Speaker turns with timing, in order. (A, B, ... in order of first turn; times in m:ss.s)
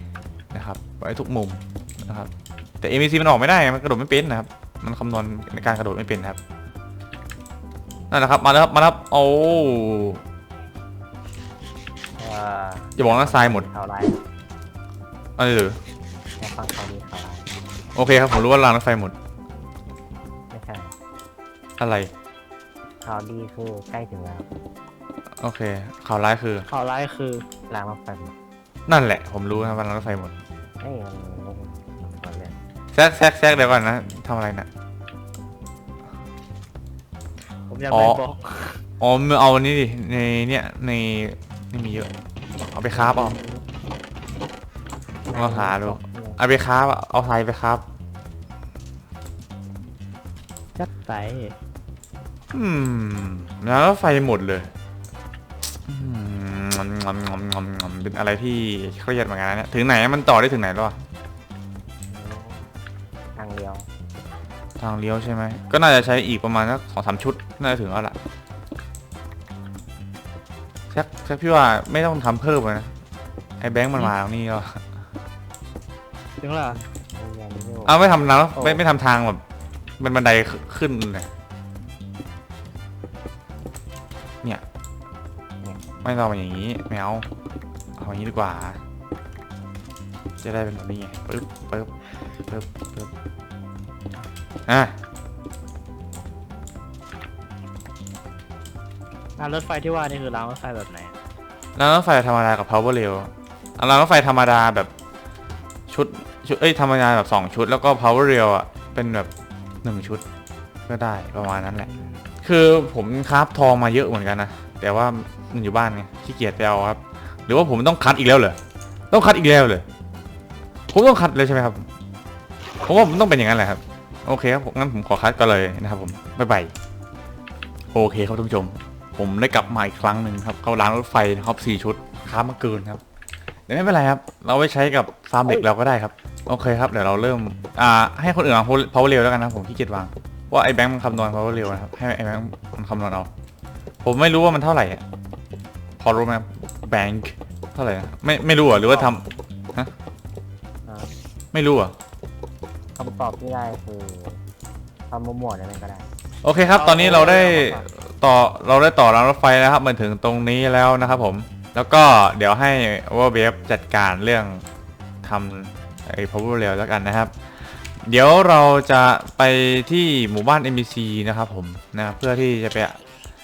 0:00.5-0:06.4 A
0:08.1-0:10.2 A
0:12.2-0:14.2 B
0:13.0-0:13.7 A
0:15.4-0:15.8 A
0:16.4-0:17.5 B
0:18.0-0:19.2 A
0:20.5-0:20.9 B
0:21.8-0:22.1 A
0:23.0-0:24.5 B
0:25.4-0:26.7 A
0:26.7-0:27.4 C
0:27.7-0:28.4 B
0:28.9-0:30.3 A
0:30.8-0:32.6 B
0:32.9-0:34.7 A
0:37.7-0:38.8 C
0:37.9-0:38.2 A
0:39.0-0:42.1 A
0:42.7-0:43.4 A
0:42.8-0:43.6 B
0:45.3-0:46.4 B
0:45.3-0:47.8 A
0:50.8-0:51.6 C
0:52.5-0:54.7 A
0:55.7-1:01.0 A
1:02.1-1:02.7 B
1:03.4-1:03.9 B
1:04.8-1:08.2 A
1:10.9-1:12.9 A
1:13.6-1:14.8 A
1:16.4-1:16.8 C
1:17.1-1:18.1 B
1:17.8-1:19.4 A
1:20.0-1:21.3 A
1:26.0-1:27.3 A
1:28.0-1:28.8 A
1:30.4-1:31.9 A
1:32.5-1:33.1 A
1:34.7-1:35.0 A
1:39.4-1:41.1 C
1:41.8-1:44.9 A
1:45.9-1:49.3 A
1:49.8-1:50.2 A
1:50.9-1:58.6 A
1:51.9-1:52.2 C
1:59.1-1:59.9 A
2:00.9-2:01.9 A
2:02.9-2:06.7 A
2:07.9-2:13.0 A
2:13.7-2:23.3 A
2:24.0-2:25.0 A
2:26.0-2:29.9 A
2:30.9-2:31.1 B
2:31.5-2:31.9 A
2:33.0-2:34.4 B
2:35.1-2:36.1 B
2:36.4-2:44.6 A
2:36.7-2:37.8 C
2:45.2-2:47.3 A
2:48.0-2:53.0 A